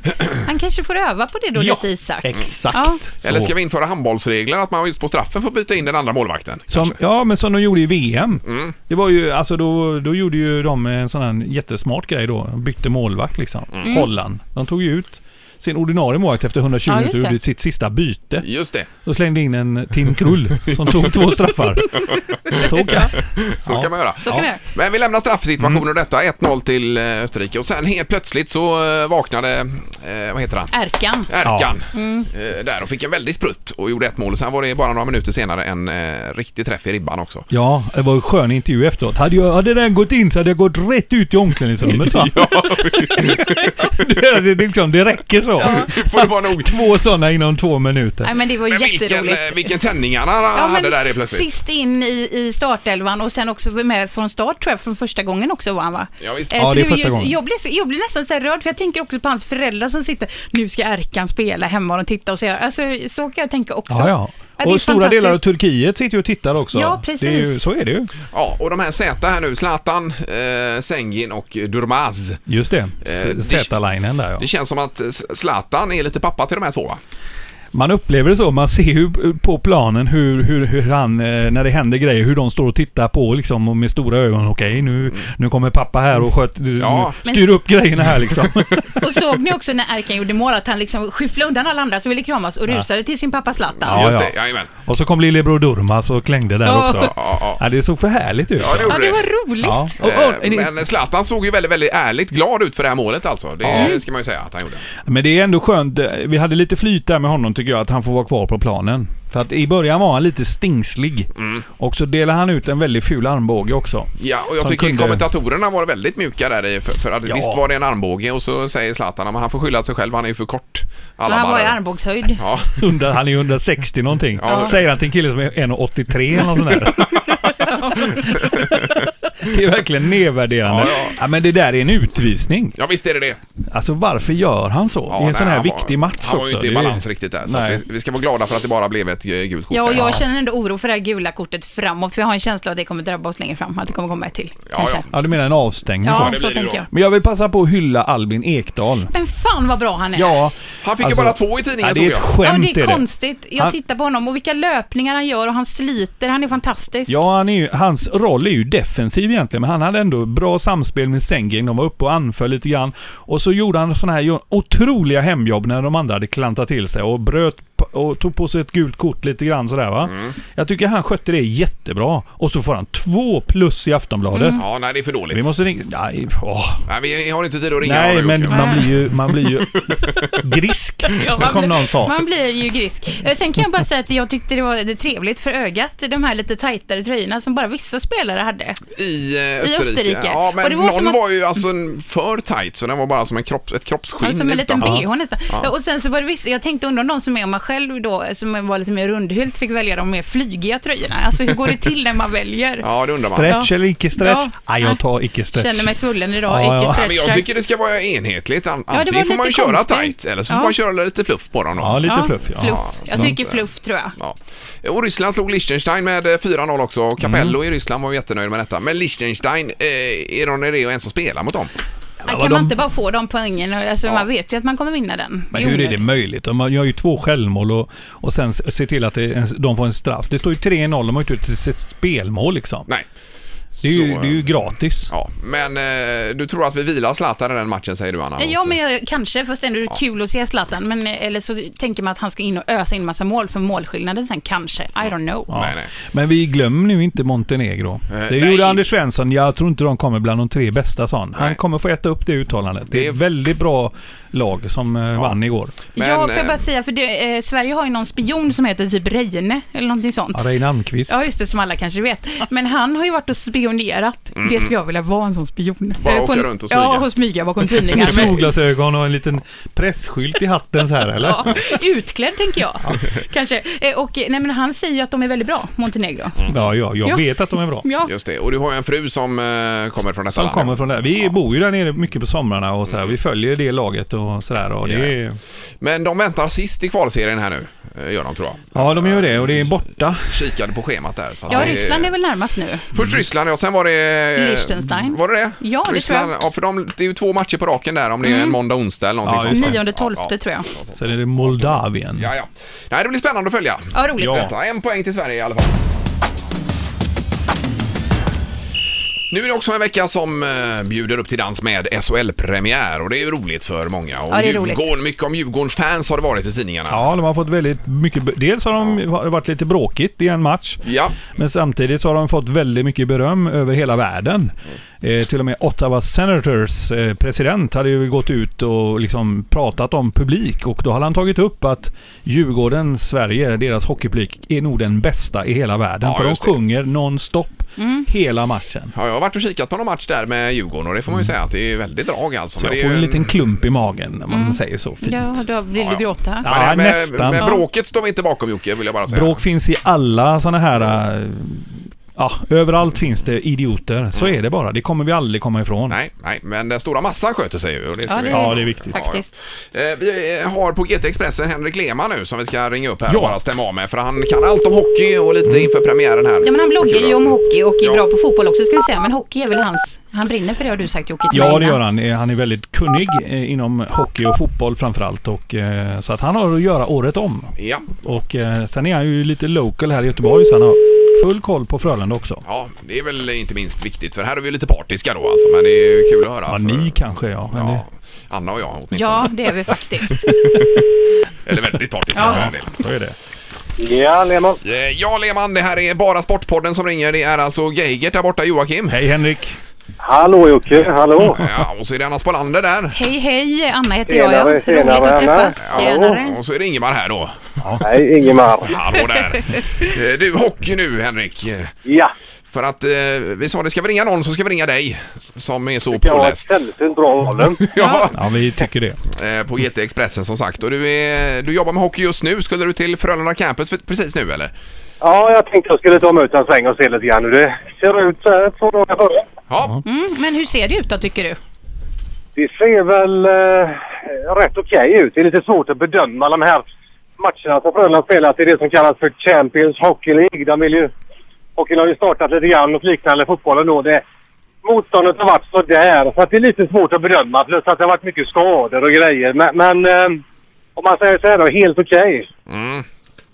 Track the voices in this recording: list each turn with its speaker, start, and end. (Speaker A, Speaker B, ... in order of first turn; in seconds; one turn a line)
Speaker A: 0.1-0.4
Speaker B: 0.4-3.0
Speaker C: 1.6-3.5
Speaker A: 3.2-7.0
Speaker C: 6.7-18.4
Speaker A: 8.4-8.8
Speaker A: 13.7-14.0
Speaker B: 13.8-14.1
Speaker B: 16.9-17.4
Speaker A: 18.4-18.9
Speaker C: 19.0-24.5
Speaker A: 20.8-21.1
Speaker A: 22.5-30.7
Speaker B: 24.2-24.6
Speaker B: 30.7-31.3
Speaker A: 31.3-37.5
Speaker C: 31.4-31.7
Speaker B: 31.9-32.3
Speaker C: 37.5-48.3
Speaker A: 41.8-44.1
Speaker A: 45.6-46.8
Speaker B: 45.6-45.9
Speaker B: 48.2-49.7
Speaker A: 48.7-51.5
Speaker B: 50.5-65.4
Speaker A: 56.2-56.6
Speaker C: 56.5-57.3
Speaker C: 63.9-68.1
Speaker B: 66.7-67.6
Speaker A: 68.3-72.4
Speaker C: 72.5-74.5
Speaker A: 73.0-73.7
Speaker A: 74.4-77.0
Speaker C: 77.7-89.0
Speaker A: 86.8-87.1
Speaker B: 89.0-94.1
Speaker A: 93.8-94.7
Speaker C: 93.9-99.0
Speaker B: 96.6-97.1
Speaker A: 97.0-97.6
Speaker A: 98.6-99.2
Speaker B: 98.9-99.9
Speaker C: 99.6-100.8
Speaker A: 100.0-104.8
Speaker C: 103.6-103.9
Speaker B: 103.7-104.0
Speaker C: 105.1-115.2
Speaker A: 111.3-111.6
Speaker A: 114.2-121.8
Speaker C: 117.2-117.6
Speaker B: 121.3-122.4
Speaker A: 122.3-122.8
Speaker C: 122.8-132.8
Speaker A: 124.3-124.8
Speaker B: 124.5-124.7
Speaker B: 127.7-128.2
Speaker A: 128.6-128.8
Speaker A: 130.7-131.2
Speaker A: 132.8-133.4
Speaker C: 133.7-137.8
Speaker A: 135.1-140.2
Speaker B: 139.7-145.1
Speaker C: 139.9-140.2
Speaker A: 144.7-145.1
Speaker C: 145.1-146.4
Speaker B: 146.0-146.9
Speaker A: 146.1-146.8
Speaker C: 146.9-149.1
Speaker B: 149.1-150.3
Speaker C: 150.2-153.0
Speaker A: 150.8-152.3
Speaker B: 152.4-157.2
Speaker C: 157.1-174.6
Speaker A: 170.1-170.3
Speaker B: 174.3-174.6
Speaker A: 174.6-175.5
Speaker C: 175.3-176.8
Speaker A: 176.9-178.9
Speaker C: 177.8-182.2
Speaker B: 178.5-178.9
Speaker B: 181.2-188.8
Speaker A: 188.9-195.7
Speaker B: 189.6-191.2
Speaker B: 194.2-202.9
Speaker A: 202.8-203.5
Speaker C: 203.2-205.9
Speaker B: 203.4-205.0
Speaker B: 205.5-207.5
Speaker C: 206.5-207.0
Speaker A: 206.9-213.6
Speaker B: 208.9-210.7
Speaker C: 211.8-213.3
Speaker B: 212.1-214.2
Speaker A: 214.2-221.7
Speaker C: 217.2-217.6
Speaker B: 222.2-226.0
Speaker C: 222.3-222.7
Speaker C: 225.5-232.9
Speaker A: 233.8-234.5
Speaker C: 233.8-235.1
Speaker A: 235.1-238.8
Speaker B: 238.4-245.5
Speaker C: 245.5-255.7
Speaker A: 245.5-245.9
Speaker A: 248.1-248.8
Speaker A: 252.9-253.2
Speaker A: 255.9-256.6
Speaker B: 255.9-260.4
Speaker C: 260.3-261.2
Speaker B: 261.1-268.4
Speaker A: 264.4-264.7
Speaker A: 266.0-267.1
Speaker C: 267.9-271.6
Speaker A: 268.0-268.3
Speaker B: 271.2-276.4
Speaker A: 276.4-276.7
Speaker C: 276.5-277.9
Speaker B: 277.8-278.1
Speaker A: 278.1-281.3
Speaker C: 280.3-285.4
Speaker A: 282.9-283.1
Speaker A: 284.8-285.1
Speaker A: 285.8-289.7
Speaker C: 288.8-290.4
Speaker A: 290.2-292.1
Speaker B: 291.5-292.9
Speaker C: 291.5-291.8
Speaker A: 292.9-305.8
Speaker B: 294.4-296.3
Speaker B: 298.2-298.6
Speaker C: 299.2-299.8
Speaker B: 299.5-300.7
Speaker C: 300.9-302.3
Speaker B: 303.9-304.5
Speaker C: 304.2-304.5
Speaker A: 309.3-317.0
Speaker B: 314.3-314.9
Speaker C: 316.9-320.8
Speaker A: 320.8-321.2
Speaker C: 321.3-338.9
Speaker A: 336.0-336.6
Speaker B: 337.8-338.1
Speaker A: 338.9-343.3
Speaker C: 342.6-345.3
Speaker B: 344.3-346.5
Speaker A: 345.8-349.4
Speaker C: 346.4-347.5
Speaker B: 347.4-347.6
Speaker C: 349.1-356.0
Speaker A: 355.9-367.2
Speaker B: 358.1-359.3
Speaker C: 358.3-359.0
Speaker C: 363.1-363.4
Speaker B: 366.4-371.8
Speaker C: 371.3-382.4
Speaker A: 377.6-378.0
Speaker A: 382.4-386.9
Speaker C: 386.5-387.8
Speaker A: 387.5-389.5
Speaker B: 388.9-390.3
Speaker A: 390.3-390.8
Speaker A: 391.4-392.8
Speaker B: 392.1-392.5
Speaker C: 392.2-393.1
Speaker D: 393.8-394.6
Speaker A: 394.6-399.0
Speaker C: 398.9-399.6
Speaker D: 400.0-401.4
Speaker A: 401.3-403.0
Speaker B: 402.9-406.3
Speaker D: 404.1-406.2
Speaker A: 405.6-407.4
Speaker D: 407.8-408.8
Speaker A: 408.6-411.7
Speaker D: 411.9-412.1
Speaker A: 412.5-416.6
Speaker D: 415.9-417.7
Speaker A: 417.6-418.2
Speaker B: 417.8-418.1
Speaker C: 418.1-419.0
Speaker A: 419.1-424.5
Speaker D: 425.0-429.3
Speaker A: 429.5-429.8
Speaker B: 429.8-431.4
Speaker D: 432.4-436.7
Speaker D: 437.2-440.9
Speaker D: 441.6-444.0
Speaker D: 444.6-450.2
Speaker D: 450.8-452.3
Speaker A: 452.5-452.9